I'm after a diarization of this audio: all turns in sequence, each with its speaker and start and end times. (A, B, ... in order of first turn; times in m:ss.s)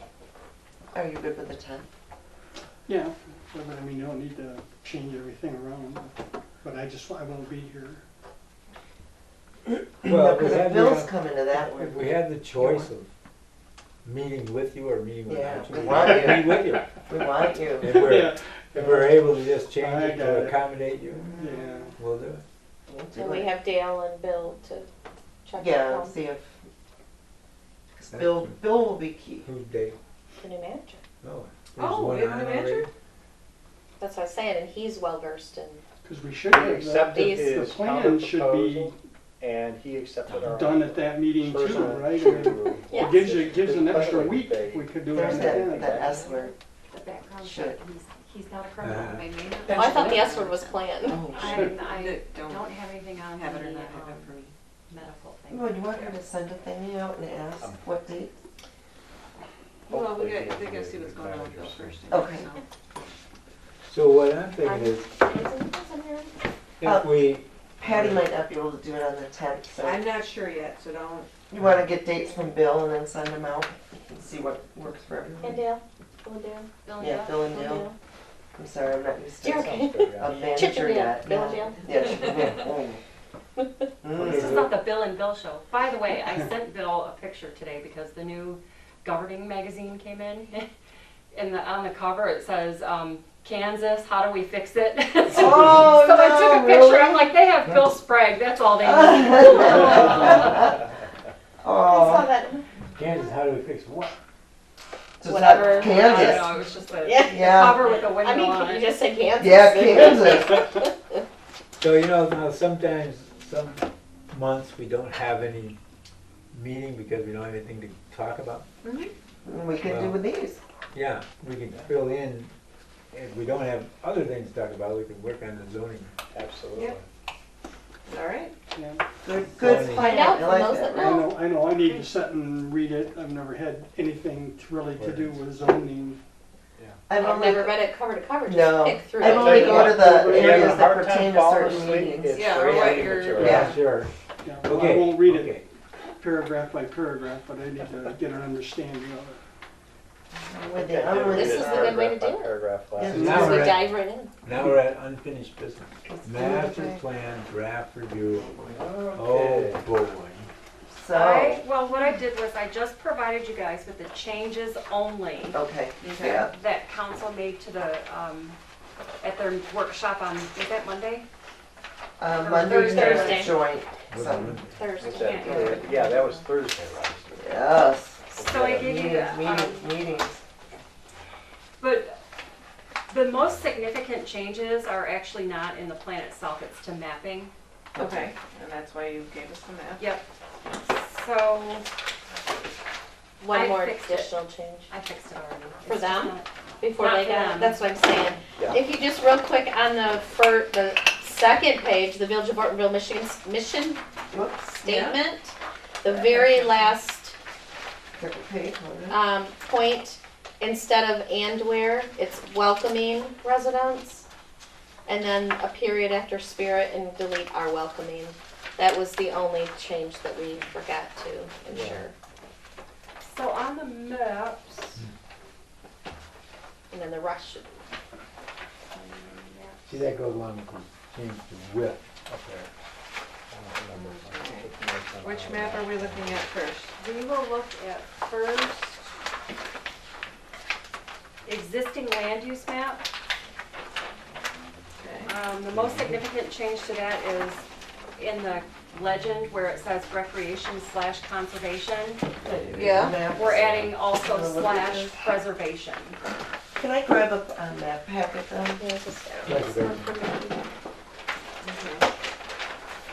0:00.9-0:01.9 A
0:02.8-0:08.0 B
0:10.0-0:12.9 A
0:10.0-0:13.1 C
0:14.0-0:21.4 C
0:15.3-0:18.0 A
0:17.8-0:20.6 B
0:21.3-0:21.9 B
0:21.3-0:21.6 A
0:21.9-0:22.4 C
0:22.9-0:23.5 A
0:23.1-0:24.9 D
0:25.4-0:26.2 D
0:25.6-0:26.6 A
0:28.0-0:29.5 A
0:28.1-0:28.6 C
0:29.4-0:30.0 C
0:30.4-0:31.0 D
0:31.2-0:32.9 C
0:31.8-0:32.9 E
0:34.0-0:35.8 D
0:36.0-0:38.9 B
0:36.5-0:46.3 F
0:37.1-0:37.5 D
0:40.5-0:46.0 B
0:42.2-0:43.3 D
0:45.1-0:46.5 A
0:46.9-0:49.2 G
0:47.4-0:47.8 A
0:48.8-0:49.3 C
0:49.1-0:52.8 E
0:49.7-0:51.3 D
0:51.0-0:51.7 A
0:51.4-0:54.3 G
0:53.3-0:54.5 E
0:54.9-0:56.2 G
0:55.5-0:58.3 A
0:59.9-1:02.6 E
0:59.9-1:02.0 F
1:02.1-1:02.5 A
1:03.9-1:05.0 C
1:04.6-1:06.3 D
1:06.8-1:08.2 C
1:06.8-1:07.2 A
1:07.8-1:10.1 A
1:09.8-1:11.3 E
1:11.5-1:15.6 A
1:15.4-1:16.7 D
1:16.8-1:17.4 G
1:17.0-1:17.9 A
1:17.3-1:17.9 D
1:18.6-1:23.0 A
1:19.4-1:21.9 D
1:19.5-1:20.7 F
1:24.0-1:24.7 A
1:24.2-1:30.6 G
1:24.3-1:24.6 C
1:31.3-1:40.6 G
1:35.3-1:37.8 A
1:38.8-1:40.7 A
1:41.6-1:42.3 A
1:41.8-1:42.8 D
1:42.9-1:44.2 C
1:45.2-1:46.5 A
1:45.2-1:51.2 D
1:45.5-1:48.9 G
1:47.3-1:47.8 A
1:49.4-1:50.6 A
1:51.8-1:55.8 C
1:56.5-1:58.6 C
1:58.8-1:59.1 E
1:59.4-2:00.6 A
1:59.8-2:00.2 C
2:00.9-2:02.5 C
2:03.1-2:06.1 C
2:06.3-2:07.0 F
2:08.0-2:08.5 E
2:08.7-2:09.0 B
2:09.2-2:11.3 A
2:09.5-2:10.2 C
2:09.9-2:11.4 D
2:11.0-2:16.2 B
2:15.0-2:15.4 C
2:17.1-2:17.8 A
2:17.1-2:20.2 D
2:18.4-2:22.5 A
2:19.2-2:23.7 F
2:19.9-2:20.8 B
2:22.3-2:23.8 E
2:23.4-2:23.7 A
2:23.4-2:24.1 C
2:24.4-2:25.6 B
2:24.6-2:25.6 C
2:26.2-2:29.4 B
2:30.3-2:32.0 A
2:30.7-2:34.0 F
2:31.2-2:32.5 D
2:33.0-2:33.8 A
2:33.1-2:33.8 C
2:33.2-2:34.3 D
2:34.4-2:38.6 C
2:36.2-2:37.0 A
2:38.6-2:39.8 F
2:39.1-2:40.5 C
2:40.9-2:41.6 A
2:41.1-2:45.6 G
2:45.5-2:46.5 A
2:46.0-2:46.4 E
2:46.4-2:48.6 G
2:49.2-2:51.3 G
2:52.2-2:54.6 A
2:52.4-2:53.5 G
2:52.6-2:53.6 D
2:54.1-2:54.8 C
2:54.6-2:56.1 D
2:54.9-2:57.6 F
2:55.1-2:55.8 G
2:57.3-3:00.4 A
2:58.3-2:58.9 F
2:58.4-3:00.0 G
3:01.8-3:02.2 G
3:03.1-3:07.5 G
3:07.9-3:08.3 A
3:08.0-3:10.1 E
3:10.0-3:11.8 G
3:13.4-3:14.9 D
3:13.5-3:14.4 G
3:14.9-3:16.5 G
3:15.9-3:24.0 D
3:17.0-3:17.8 G
3:24.3-3:24.7 A
3:24.7-3:27.3 D
3:24.8-3:25.2 E
3:26.1-3:26.8 E
3:28.1-3:29.2 A
3:29.1-3:34.2 D
3:35.0-3:42.1 D
3:41.7-3:42.0 C
3:43.2-3:45.0 G
3:46.9-3:47.7 D
3:48.9-3:49.8 G
3:49.8-3:52.7 C
3:53.5-3:56.5 F
3:53.9-3:56.9 E
3:57.0-3:58.9 G
4:01.4-4:03.0 G
4:05.0-4:05.3 E
4:05.2-4:07.6 G
4:05.7-4:06.2 C
4:08.2-4:12.2 G
4:12.4-4:15.2 A
4:12.7-4:13.2 E
4:13.3-4:16.2 G
4:16.8-4:18.8 A
4:18.8-4:20.7 D
4:19.4-4:20.1 C
4:21.6-4:22.1 E